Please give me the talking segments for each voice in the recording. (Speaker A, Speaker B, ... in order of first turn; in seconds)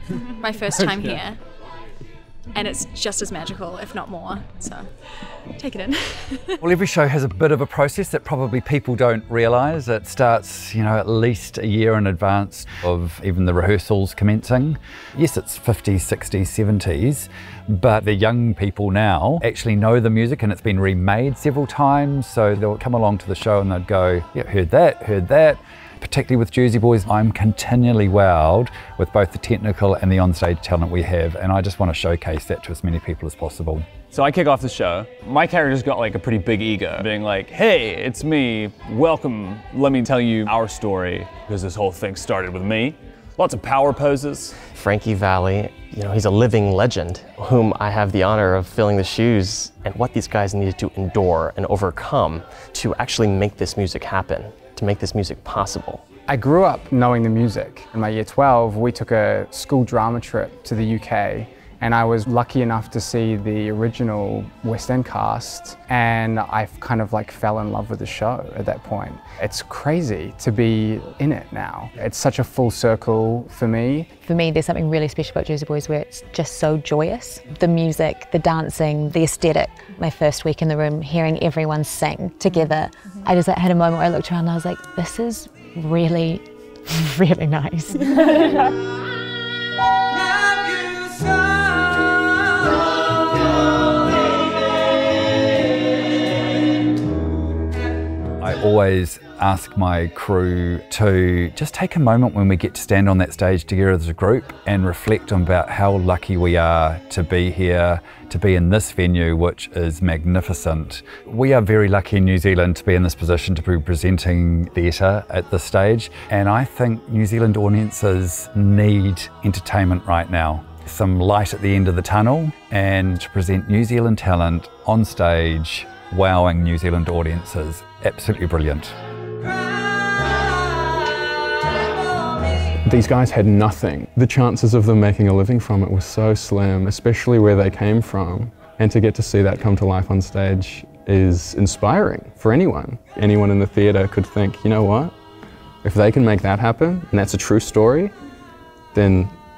Speaker A: 0.4-1.3, 2.5-4.8, 5.6-6.5
Speaker B: 6.6-33.9, 98.4-128.9
Speaker C: 34.1-44.7
Speaker D: 44.8-56.0
Speaker E: 56.3-74.0
Speaker F: 74.2-88.1
Speaker G: 132.8-145.1, 145.8-148.1, 148.9-149.3